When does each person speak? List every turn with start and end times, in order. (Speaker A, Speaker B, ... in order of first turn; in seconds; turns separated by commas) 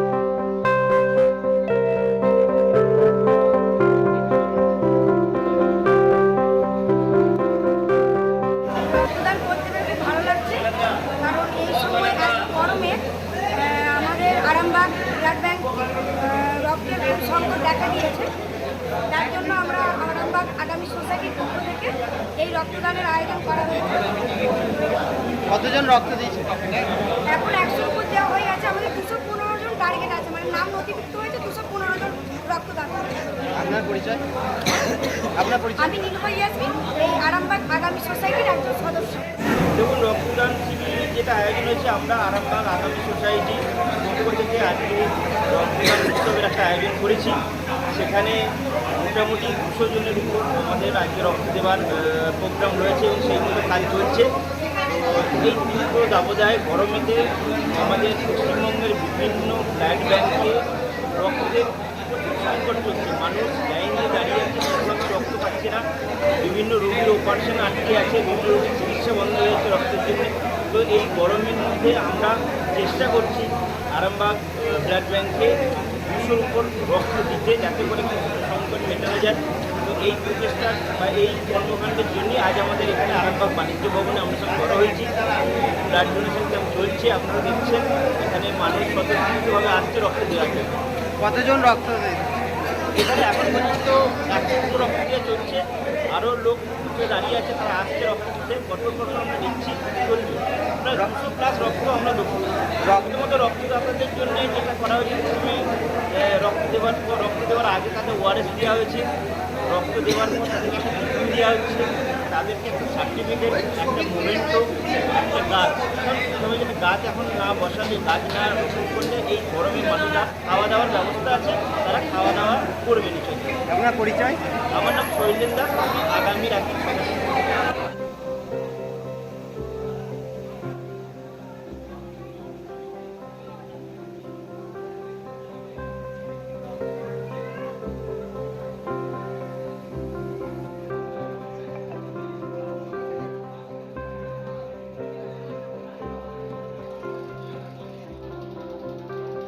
Speaker A: 8.9-18.3, Speaker A: 19.1-24.3, Speaker B: 25.5-26.9, Speaker A: 27.3-33.5, Speaker B: 33.6-34.2, Speaker B: 35.4-35.9, Speaker A: 35.8-39.3, Speaker C: 39.7-47.4, Speaker C: 47.9-60.6, Speaker C: 61.1-65.8, Speaker C: 66.4-85.1, Speaker C: 85.8-90.8, Speaker B: 91.2-92.4, Speaker C: 93.0-109.1, Speaker C: 109.7-123.5, Speaker B: 123.7-124.4, Speaker C: 124.7-127.2